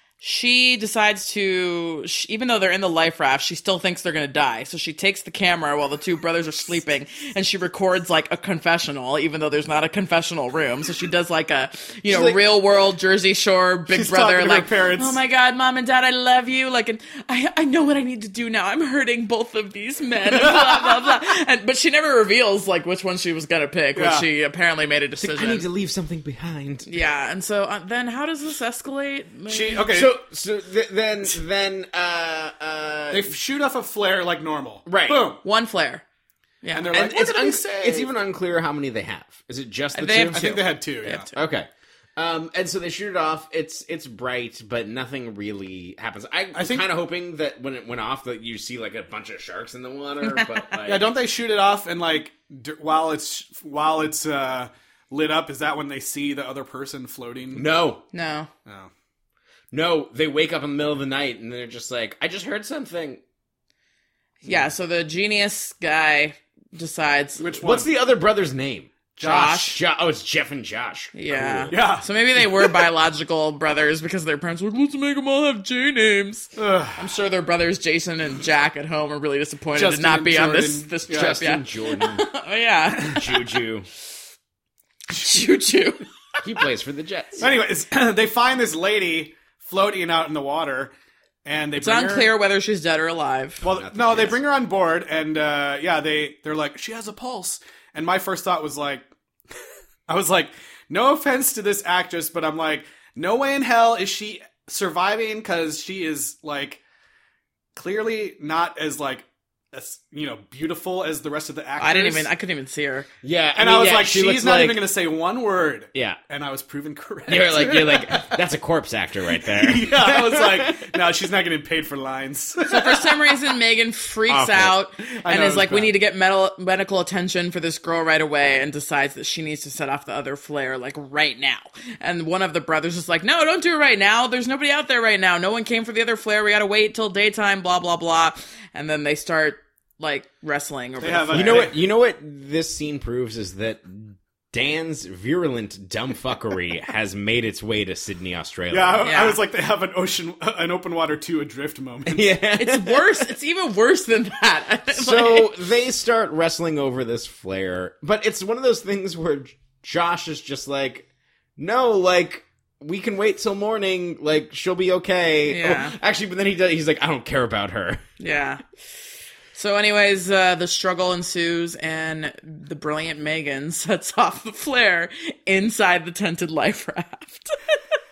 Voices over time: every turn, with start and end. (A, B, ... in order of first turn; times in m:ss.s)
0:00.2-0:25.6 A
0:12.1-0:12.4 B
0:13.9-0:15.2 C
0:20.3-0:21.0 C
0:23.9-0:24.3 C
0:25.2-0:26.9 B
0:26.8-0:29.9 A
0:29.5-0:30.1 C
0:29.9-0:33.3 B
0:33.1-0:35.4 C
0:34.8-0:35.3 B
0:35.4-0:36.0 A
0:36.6-0:36.9 A
0:36.7-0:38.1 C
0:36.9-0:40.5 B
0:39.9-0:41.4 A
0:40.3-0:41.3 C
0:41.3-0:51.1 B
0:46.5-0:46.8 C
0:50.8-0:57.6 C
0:57.5-0:58.0 B
0:58.1-0:58.5 A
0:59.7-1:03.2 B
1:04.4-1:07.4 A
1:07.4-1:07.9 C
1:07.6-1:11.8 B
1:09.2-1:09.8 A
1:09.2-1:09.5 C
1:11.1-1:23.4 A
1:11.7-1:12.8 C
1:16.6-1:17.1 C
1:19.7-1:21.4 C
1:21.1-1:22.3 B
1:23.1-1:23.9 B
1:25.1-1:26.0 A
1:26.4-1:27.5 B
1:27.4-1:30.9 C
1:31.4-1:32.3 C
1:31.8-1:33.6 A
1:33.6-1:34.4 B
1:33.6-1:39.1 C
1:40.1-1:46.8 C
1:47.8-1:52.3 C
1:51.8-1:53.1 A
1:53.2-1:54.8 B
1:53.6-1:58.4 C
1:57.3-2:00.9 B
1:59.5-2:03.3 C
2:02.7-2:21.7 A
2:04.3-2:04.7 B
2:05.2-2:05.9 C
2:21.0-2:21.8 C
2:21.3-2:29.1 B
2:28.7-2:32.3 C
2:29.0-2:29.4 A
2:32.0-2:33.2 B
2:32.6-2:35.5 A
2:34.9-2:48.0 B
2:45.4-2:46.0 A
2:48.2-2:48.6 A
2:49.5-2:57.7 A